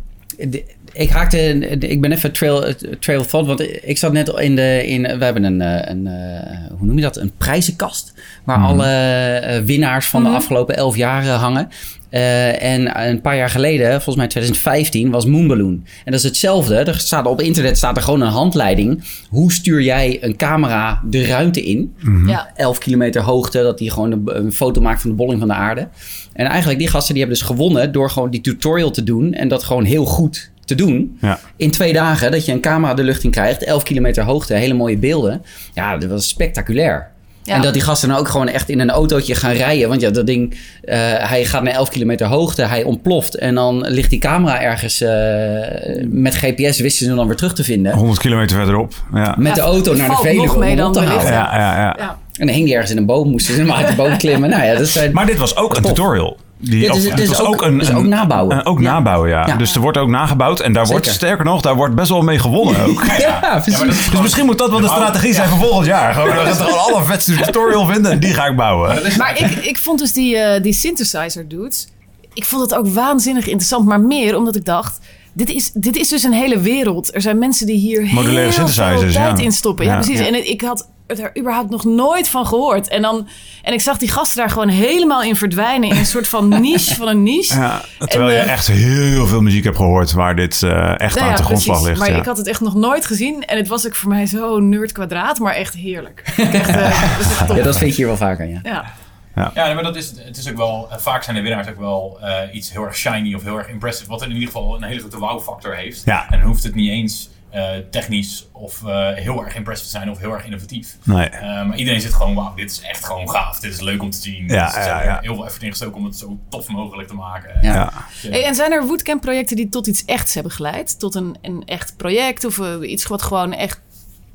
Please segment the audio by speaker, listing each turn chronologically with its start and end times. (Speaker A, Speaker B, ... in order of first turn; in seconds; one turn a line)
Speaker A: 0.4-48.0
Speaker B: 8.6-8.9
Speaker C: 10.2-10.4
Speaker B: 22.1-22.3
Speaker B: 47.9-49.4
Speaker A: 49.3-51.5
Speaker C: 49.4-52.1
Speaker B: 51.2-52.0
Speaker A: 52.4-56.0
Speaker B: 55.1-69.4
Speaker A: 56.8-59.6
Speaker A: 60.9-61.2
Speaker A: 62.9-64.0
Speaker D: 63.0-66.8
Speaker D: 68.8-69.5
Speaker C: 69.1-88.5
Speaker B: 78.1-80.1
Speaker B: 87.5-92.2
Speaker C: 91.1-97.8
Speaker A: 96.5-96.8
Speaker A: 97.5-98.6
Speaker D: 99.5-118.4
Speaker B: 111.1-111.4
Speaker B: 114.5-115.2
Speaker B: 117.7-118.0
Speaker C: 118.3-123.8